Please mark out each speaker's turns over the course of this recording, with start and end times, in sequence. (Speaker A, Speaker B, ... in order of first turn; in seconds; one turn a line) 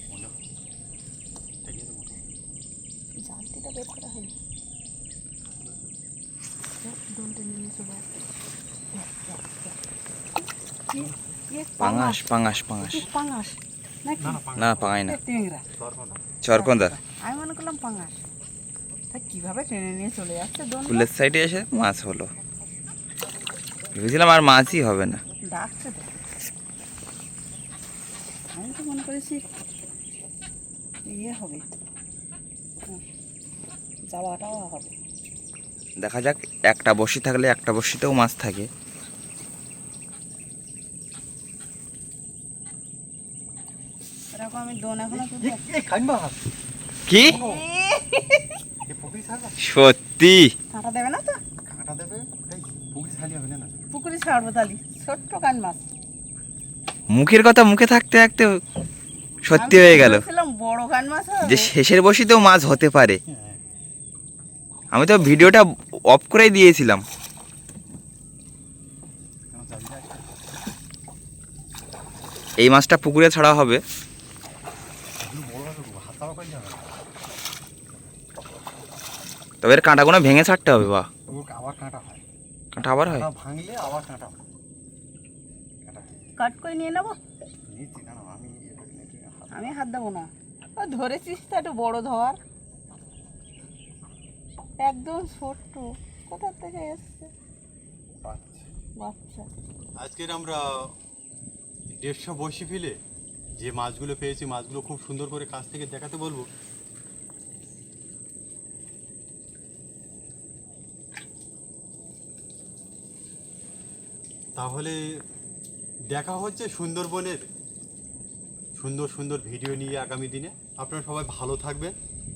Speaker A: 0.1-0.4
Speaker A: 1.6-2.3
Speaker B: 3.2-4.3
Speaker B: 6.8-8.1
Speaker B: 8.9-9.8
Speaker B: 10.9-12.2
Speaker C: 11.8-13.1
Speaker B: 12.8-15.7
Speaker A: 14.2-14.9
Speaker C: 14.6-15.2
Speaker A: 15.8-16.3
Speaker C: 16.4-16.9
Speaker B: 16.6-18.2
Speaker B: 19.1-21.1
Speaker C: 20.9-22.3
Speaker C: 23.9-25.2
Speaker B: 25.5-26.1
Speaker B: 28.5-29.4
Speaker B: 31.1-31.6
Speaker B: 34.1-34.9
Speaker C: 36.0-38.7
Speaker B: 44.3-45.6
Speaker A: 45.1-46.5
Speaker C: 47.1-47.4
Speaker A: 47.2-47.7
Speaker B: 47.2-48.6
Speaker A: 48.9-49.6
Speaker C: 49.6-50.5
Speaker B: 50.7-51.4
Speaker A: 51.6-53.8
Speaker B: 53.9-55.8
Speaker C: 57.1-58.5
Speaker C: 59.5-60.2
Speaker B: 59.6-61.7
Speaker C: 61.4-63.2
Speaker A: 63.3-63.6
Speaker C: 64.9-67.0
Speaker A: 69.5-70.3
Speaker C: 72.6-73.8
Speaker A: 75.2-77.0
Speaker C: 79.6-81.1
Speaker A: 81.3-82.2
Speaker C: 82.8-83.3
Speaker A: 83.1-84.4
Speaker A: 85.8-86.3
Speaker B: 86.4-87.2
Speaker A: 87.7-89.8
Speaker B: 89.5-92.4
Speaker B: 94.8-97.3
Speaker A: 98.2-98.7
Speaker B: 99.0-99.5
Speaker A: 100.0-100.7
Speaker A: 102.0-103.0
Speaker A: 103.6-106.5
Speaker A: 114.6-115.0
Speaker A: 116.1-117.5
Speaker A: 118.8-121.9